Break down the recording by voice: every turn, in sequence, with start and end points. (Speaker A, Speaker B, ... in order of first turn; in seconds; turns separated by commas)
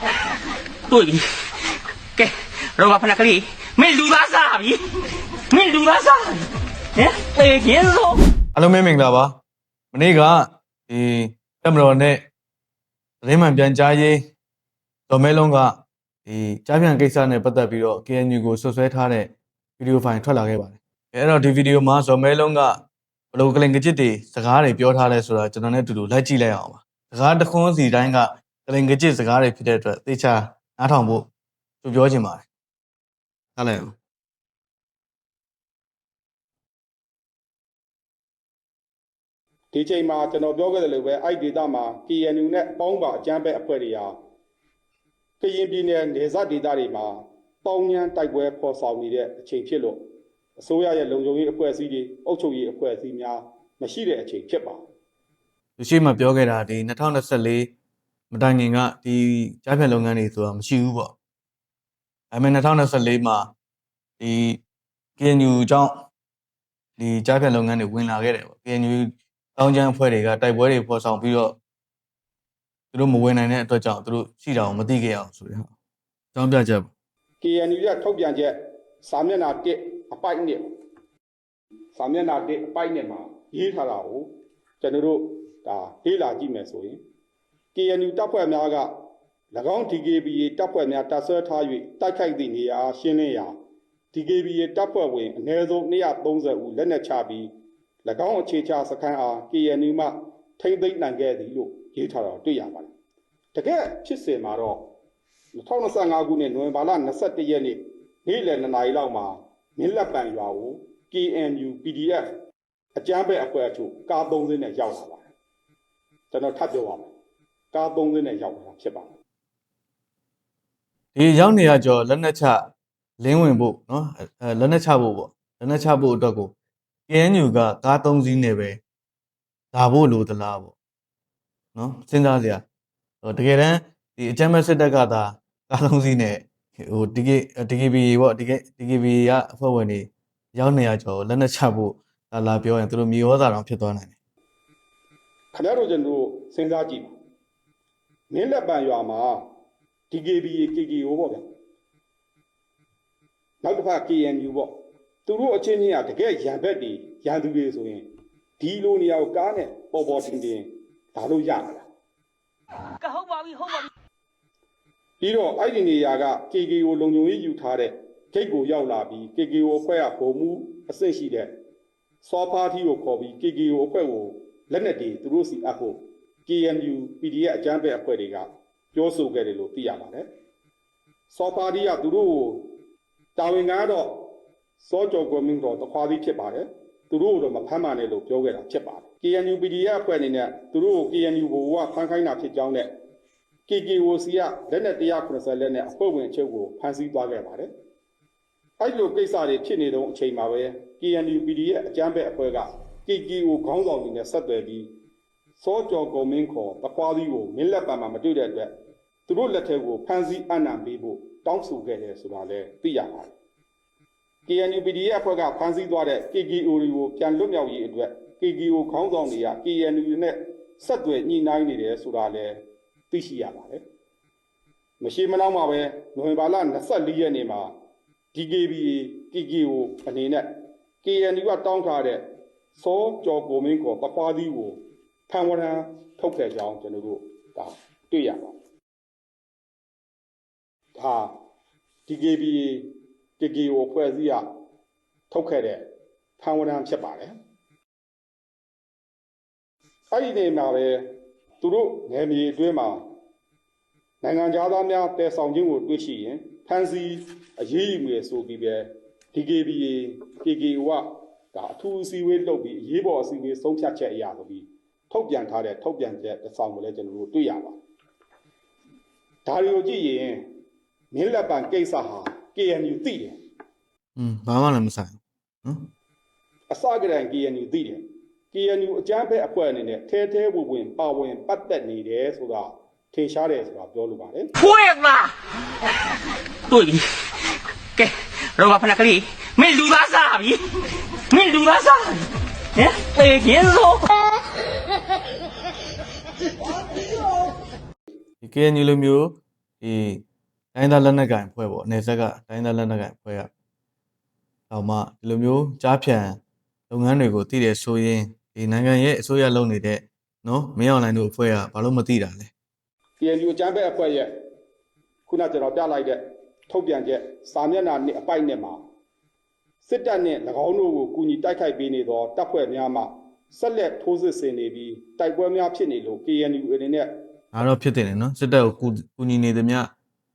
Speaker A: 0.9-1.2, Speaker A: 2.2-4.8, Speaker A: 5.5-8.2, Speaker B: 8.6-9.3, Speaker B: 9.9-12.2, Speaker B: 13.2-14.2, Speaker B: 15.1-22.8, Speaker B: 23.3-31.3, Speaker B: 31.8-32.5, Speaker B: 33.5-34.0, Speaker C: 39.7-44.1, Speaker C: 45.4-50.0, Speaker C: 50.6-54.8, Speaker B: 55.8-57.7, Speaker B: 58.3-61.1, Speaker B: 62.3-63.5, Speaker B: 64.2-64.6, Speaker B: 65.2-66.1, Speaker B: 67.0-71.6, Speaker B: 72.9-75.7, Speaker B: 76.3-76.9, Speaker C: 77.4-80.6, Speaker C: 82.0-84.3, Speaker C: 84.8-87.0, Speaker C: 87.7-88.9, Speaker C: 89.5-93.5, Speaker C: 94.1-97.5, Speaker C: 98.0-102.9, Speaker C: 103.5-104.8, Speaker C: 105.6-112.2, Speaker C: 113.0-115.3, Speaker C: 116.3-117.1, Speaker C: 117.7-119.2, Speaker B: 121.1-122.6, Speaker B: 123.2-126.5, Speaker B: 127.1-128.8, Speaker B: 129.7-130.7, Speaker B: 131.7-132.6, Speaker B: 133.2-144.1, Speaker C: 145.5-147.1, Speaker C: 148.3-149.4, Speaker C: 150.1-151.4, Speaker C: 153.6-154.7, Speaker C: 155.2-158.0, Speaker C: 158.6-161.9, Speaker A: 163.2-163.8, Speaker C: 165.2-171.5, Speaker C: 172.2-180.2, Speaker C: 181.3-182.6, Speaker C: 183.4-184.2, Speaker C: 184.8-192.9, Speaker C: 193.7-197.7, Speaker C: 198.8-204.9, Speaker C: 205.6-208.7, Speaker C: 209.3-213.3, Speaker C: 214.4-222.6, Speaker C: 223.1-223.8, Speaker C: 225.0-227.7, Speaker C: 228.3-230.5, Speaker C: 231.0-232.2, Speaker C: 232.7-238.6, Speaker C: 241.0-241.3, Speaker C: 242.1-244.4, Speaker C: 245.3-245.8, Speaker C: 246.4-247.3, Speaker C: 250.1-251.0, Speaker C: 251.6-253.0, Speaker C: 254.2-267.8, Speaker C: 269.4-270.4, Speaker C: 271.1-273.4, Speaker B: 274.1-275.9, Speaker C: 276.7-284.5, Speaker A: 284.6-285.3, Speaker A: 286.7-287.0, Speaker A: 287.9-290.6, Speaker A: 291.3-294.1, Speaker B: 298.4-300.2, Speaker B: 300.8-303.5, Speaker B: 304.7-306.4, Speaker B: 306.9-312.5, Speaker C: 313.2-314.3, Speaker C: 315.3-318.8, Speaker C: 319.8-327.1, Speaker B: 327.5-329.9